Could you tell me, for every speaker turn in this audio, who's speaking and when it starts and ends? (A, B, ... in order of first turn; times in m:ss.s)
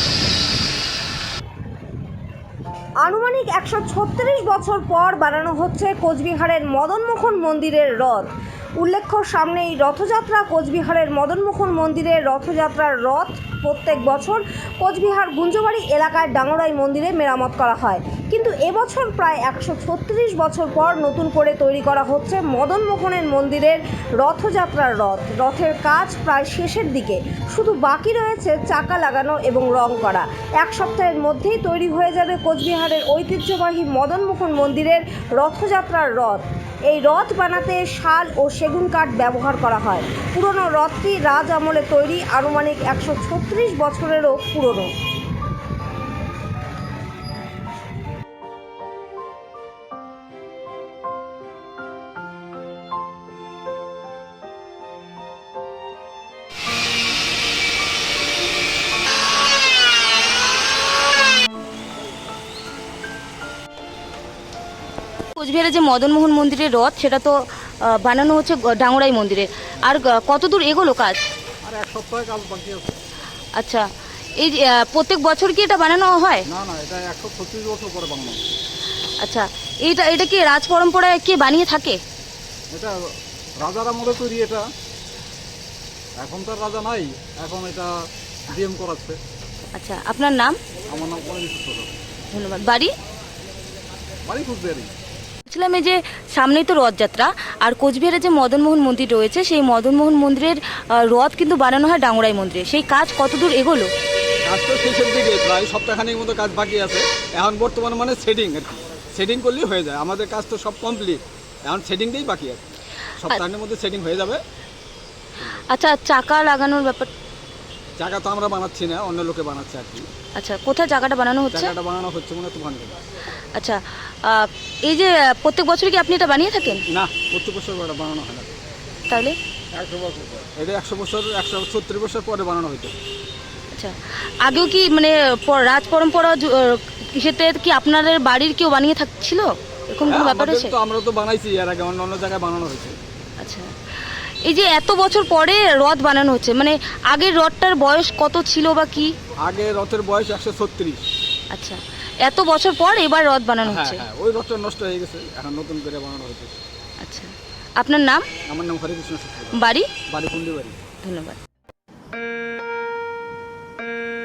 0:03.0-0:44.9 A
1:05.3-1:11.2 B
1:11.6-1:13.0 C
1:13.6-1:16.4 B
1:16.5-1:18.4 C
1:19.2-1:22.0 B
1:23.6-1:24.7 C
1:26.2-1:27.9 C
1:28.5-1:29.2 C
1:29.7-1:30.6 B
1:30.9-1:31.9 C
1:32.3-1:32.9 B
1:34.2-1:34.9 C
1:35.5-1:43.9 B
1:44.4-1:52.6 C
1:53.2-1:54.4 C
1:55.7-1:57.1 B
1:58.0-2:00.1 C
2:00.4-2:01.7 B
2:01.5-2:03.0 C
2:03.5-2:06.8 B
2:06.9-2:08.5 C
2:09.1-2:09.4 B
2:09.7-2:12.9 C
2:13.7-2:20.7 B
2:20.0-2:23.0 C
2:23.4-2:23.7 B
2:24.4-2:29.1 B
2:29.4-2:31.0 C
2:31.5-2:34.0 B
2:33.6-2:36.5 C
2:37.0-2:38.3 B
2:38.5-2:40.8 C
2:39.5-2:39.9 B
2:41.0-2:41.4 B